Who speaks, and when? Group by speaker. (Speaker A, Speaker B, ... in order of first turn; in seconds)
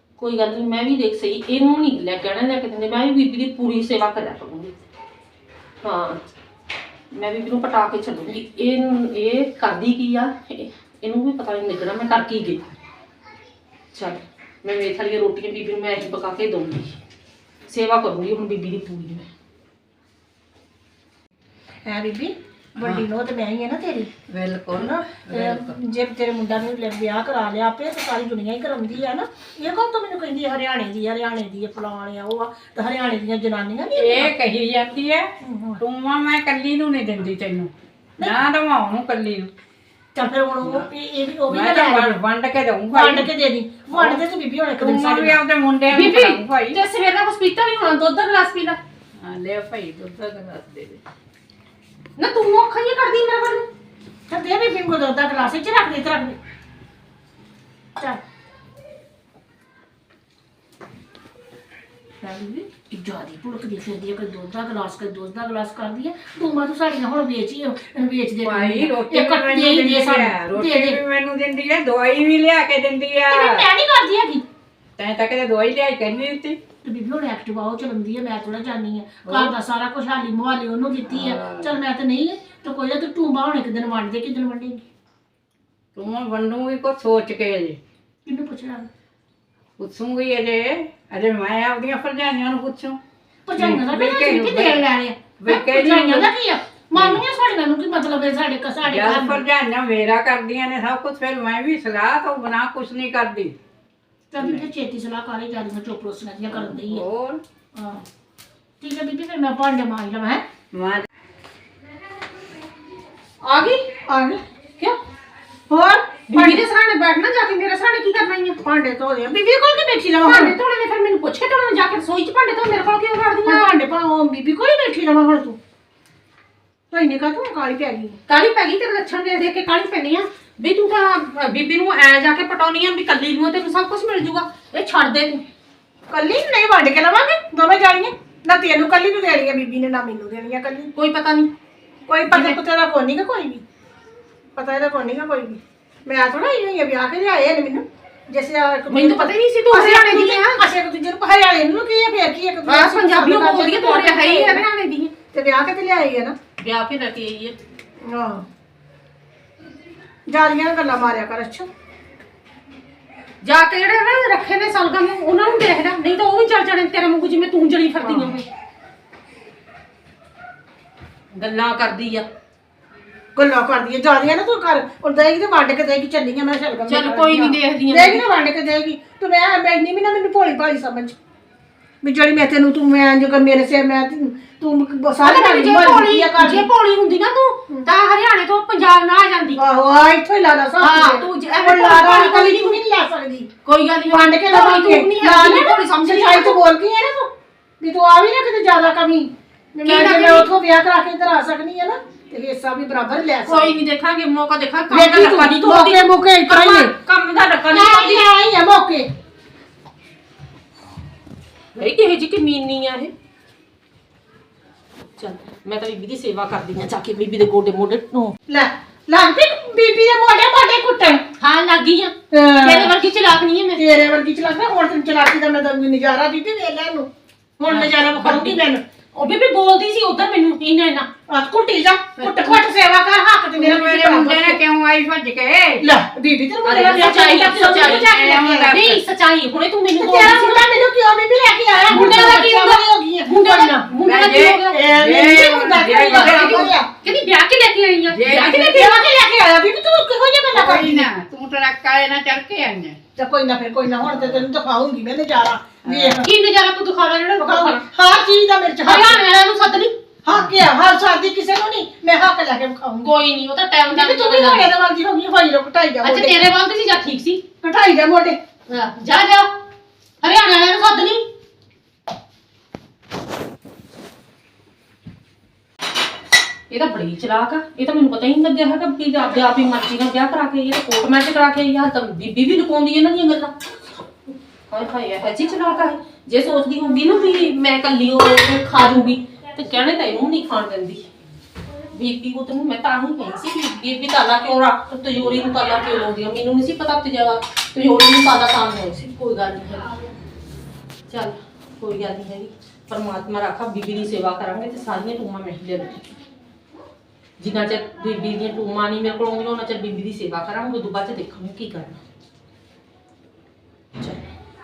Speaker A: 0.2-4.7, 5.8-6.2, 7.1-12.6, 13.9-17.0, 17.7-19.3, 45.9-48.8, 52.2-53.7, 113.4-113.8, 116.3-118.6, 120.2-123.7, 128.3-135.4, 141.0-141.5, 142.3-142.6, 148.9-150.6, 152.7-155.1, 156.6-157.6, 163.4-168.4, 171.3-172.2, 176.9-178.2, 185.2-189.6, 190.8-192.8, 193.7-196.6, 199.8-200.5, 203.4-208.3, 211.8-213.1, 215.2-218.3, 221.4-223.8, 228.2-228.6, 229.2-231.1, 236.7-240.7, 241.9-244.8, 245.8-249.1, 256.2-257.8, 258.8-259.9, 263.0-264.7, 266.0-267.4, 268.7-269.5, 270.2-271.2, 276.7-283.5, 284.7-291.1, 291.9-299.9, 301.1-306.1, 307.4-312.0
Speaker B: 21.9-24.1, 24.7-34.3, 35.4-35.8, 40.1-42.2, 42.9-45.4, 54.3-56.4, 62.2-71.0, 73.3-74.4, 76.8-84.8, 88.3-88.9, 93.5-99.4, 104.3-107.0, 107.8-108.0, 108.8-110.4, 114.1-114.4, 115.7-116.6, 118.6-120.5, 123.5-125.6, 126.9-128.2, 136.1-140.9, 142.1-143.6, 144.6-154.7, 155.3-156.4, 158.0-158.4, 160.3-161.7, 168.0-168.4, 173.4-181.2, 182.0-186.7, 189.6-193.5, 194.1-203.8, 204.9-206.9, 207.7-209.1, 218.5-221.3, 222.3-222.9, 223.8-227.1, 227.6-228.8, 231.3-234.6, 235.8-238.7, 240.0-243.9, 244.7-246.9, 248.4-251.1, 253.2-256.3, 257.4-259.2, 260.2-263.1, 263.9-266.4, 267.6-268.4
Speaker C: 24.3-25.7, 34.0-35.3, 35.8-39.5, 41.5-43.3, 43.9-44.2, 44.8-46.8, 49.2-51.0, 68.4-73.6, 75.0-76.6, 79.2-79.5, 81.1-81.7, 86.0-87.8, 89.8-93.0, 93.6-94.8, 95.4-96.3, 97.0-97.2, 98.8-103.6, 104.4-104.6, 106.5-107.4, 110.7-111.1, 227.7-228.0, 232.2-232.6, 233.6-235.8, 237.8-239.0, 241.9-242.2, 244.0-246.7, 248.1-248.8, 250.5-253.0, 254.0-254.4, 255.8-256.2